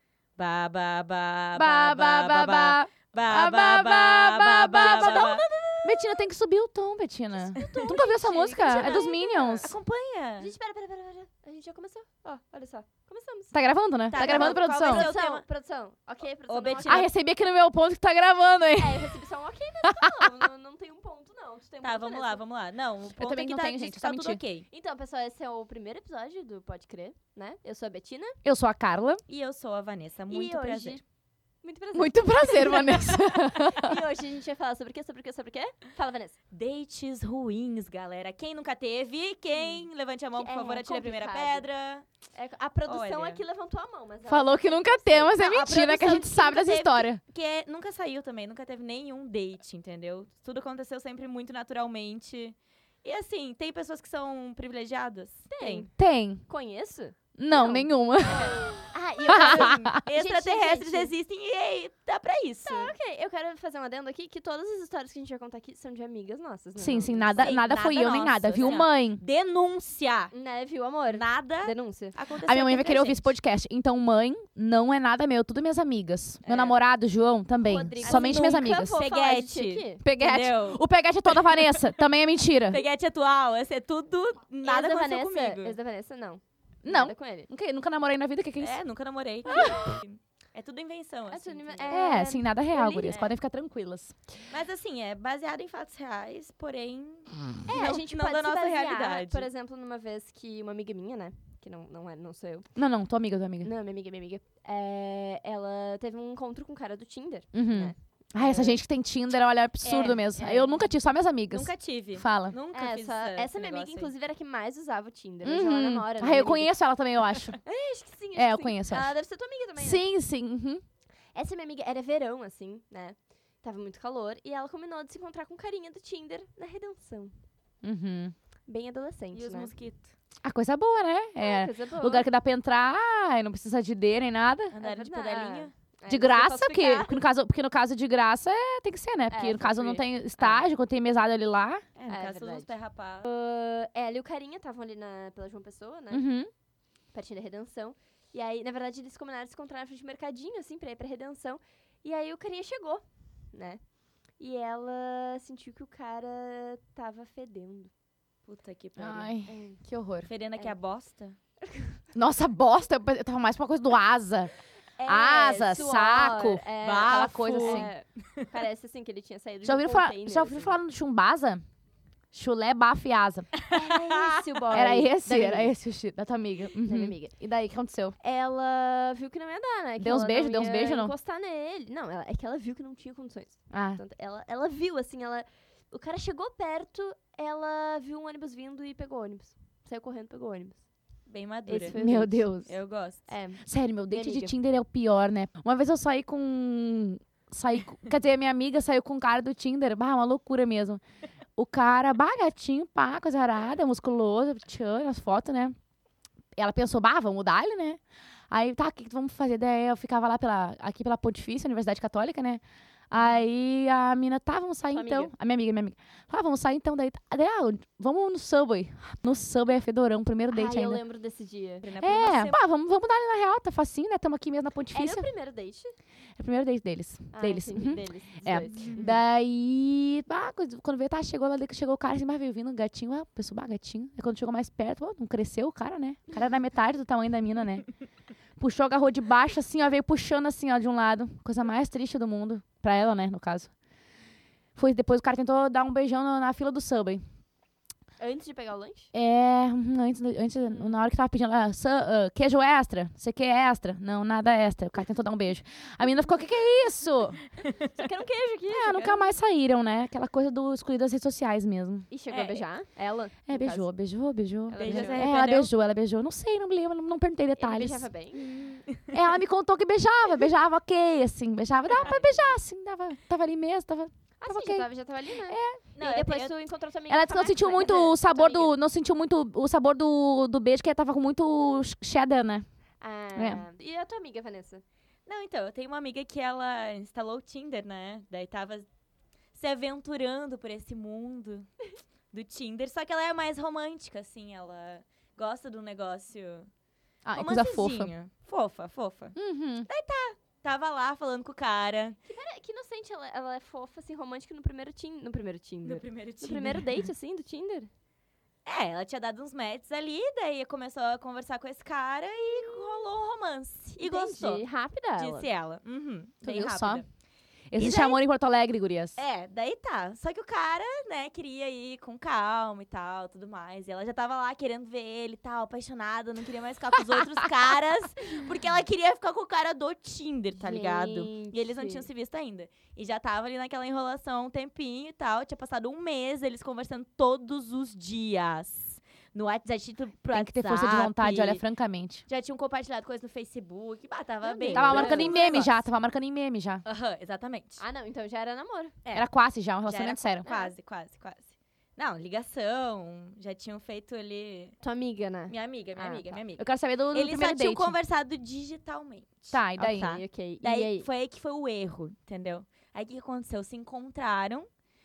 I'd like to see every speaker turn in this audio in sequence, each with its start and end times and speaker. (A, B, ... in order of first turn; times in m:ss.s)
0:00.4-0:05.4 A
0:01.6-0:09.7 B
0:04.7-0:06.2 C
0:07.3-0:09.7 C
0:07.6-0:08.0 A
0:08.7-0:10.5 A
0:10.4-0:13.6 C
0:13.5-0:15.1 B
0:14.1-0:15.4 A
0:14.1-0:17.1 C
0:16.5-0:17.1 A
0:16.8-0:19.2 B
0:18.8-0:22.4 C
0:19.9-0:20.4 B
0:21.8-0:24.6 A
0:23.2-0:24.4 B
0:24.7-0:28.4 C
0:28.4-0:29.2 B
0:29.3-0:31.0 A
0:30.3-0:31.0 C
0:31.6-0:36.4 C
0:31.9-0:34.0 B
0:36.5-0:42.0 A
0:39.5-0:39.8 C
0:40.4-0:41.7 C
0:42.3-0:45.5 C
0:42.8-0:43.4 A
0:44.3-0:47.2 B
0:45.4-0:55.9 A
0:55.5-0:55.9 C
0:56.0-0:56.4 B
0:56.5-1:01.1 C
0:57.4-1:00.0 B
0:58.3-1:02.9 A
1:02.6-1:07.6 C
1:06.8-1:09.2 B
1:07.4-1:10.3 A
1:08.6-1:08.8 C
1:10.3-1:12.2 C
1:11.1-1:13.3 A
1:12.4-1:18.9 B
1:16.4-1:16.8 A
1:17.6-1:20.0 C
1:18.0-1:21.9 A
1:20.0-1:22.8 B
1:22.7-1:25.8 A
1:24.6-1:27.5 C
1:26.8-1:28.8 B
1:28.6-1:32.0 A
1:29.5-1:29.8 C
1:31.3-1:33.2 C
1:31.9-1:34.1 B
1:33.0-1:33.3 A
1:34.5-1:39.5 A
1:37.7-1:42.7 C
1:42.8-1:43.7 B
1:43.6-1:48.8 C
1:47.5-1:52.6 B
1:49.8-1:50.2 A
1:50.3-1:50.9 C
1:51.5-1:54.1 A
1:52.7-1:56.7 C
1:55.4-1:57.6 B
1:57.6-2:00.0 C
1:58.3-1:59.1 B
1:59.8-2:00.8 B
2:01.3-2:07.4 C
2:07.8-2:08.3 B
2:08.7-2:09.7 C
2:09.3-2:10.1 A
2:10.4-2:14.7 B
2:11.4-2:12.3 C
2:14.7-2:15.7 A
2:14.8-2:17.2 C
2:16.1-2:21.8 B
2:19.3-2:20.5 C
2:22.0-2:23.3 A
2:22.1-2:22.7 C
2:23.2-2:26.2 C
2:26.1-2:26.5 B
2:27.1-2:33.8 C
2:34.4-2:37.9 C
2:38.4-2:39.3 A
2:39.0-2:40.3 B
2:39.5-2:39.8 C
2:40.2-2:41.4 A
2:41.6-2:42.0 C
2:42.1-2:44.5 B
2:45.0-2:50.8 C
2:45.0-2:47.9 B
2:46.8-2:48.6 A
2:49.6-2:51.6 B
2:52.3-2:53.5 B
2:53.5-2:54.9 A
2:53.7-2:55.7 C
2:54.7-2:58.2 B
2:56.8-2:57.4 C
2:58.2-3:10.8 C
3:00.0-3:01.1 B
3:03.7-3:04.0 B
3:11.2-3:12.0 A
3:11.7-3:12.5 C
3:11.9-3:12.7 B
3:12.6-3:13.2 A
3:13.3-3:14.5 C
3:13.6-3:21.0 B
3:21.6-3:25.8 B
3:26.6-3:41.0 B
3:34.9-3:35.3 C
3:40.5-3:41.9 C
3:41.8-3:42.6 A
3:42.0-3:45.3 B
3:44.9-3:45.9 C
3:46.4-3:57.9 B
3:47.3-3:49.1 C
3:48.7-3:49.1 A
3:58.6-4:03.7 B
4:04.8-4:07.2 B
4:08.2-4:09.1 C
4:09.1-4:17.4 B
4:10.7-4:11.0 C
4:17.6-4:18.0 A
4:17.9-4:19.3 C
4:18.7-4:22.1 B
4:22.1-4:23.9 C
4:22.3-4:22.7 A
4:23.5-4:28.1 B
4:24.7-4:25.3 C
4:24.7-4:25.7 A
4:27.6-4:28.5 C
4:28.4-4:29.2 A
4:29.1-4:34.9 B
4:31.9-4:32.5 C
4:34.4-4:38.7 C
4:35.5-4:35.8 B
4:36.0-4:36.5 A
4:37.1-4:42.6 B
4:43.0-4:44.8 C
4:43.3-4:43.6 B
4:45.2-4:48.9 A
4:49.5-4:51.7 A
4:52.3-4:56.7 A
4:57.2-4:58.1 B
4:57.3-5:02.2 A
4:59.4-4:59.9 B
5:02.2-5:07.9 C
5:05.8-5:06.9 A
5:08.6-5:14.6 A
5:14.0-5:15.5 C
5:15.2-5:17.0 A
5:16.4-5:17.0 B
5:17.7-5:19.2 B
5:17.8-5:18.2 A
5:19.2-5:41.6 A
5:30.6-5:32.1 C
5:40.3-5:42.2 B
5:42.3-5:45.8 A
5:44.4-5:45.7 C
5:44.7-5:46.8 B
5:46.8-5:47.8 A
5:47.8-5:49.0 C
5:49.0-5:49.3 A
5:49.1-5:50.4 B
5:49.8-5:54.7 A
5:50.4-5:50.7 C
5:54.8-5:56.4 C
5:55.5-6:04.7 A
5:56.6-5:57.9 B
5:59.5-6:00.2 B
5:59.8-6:01.1 C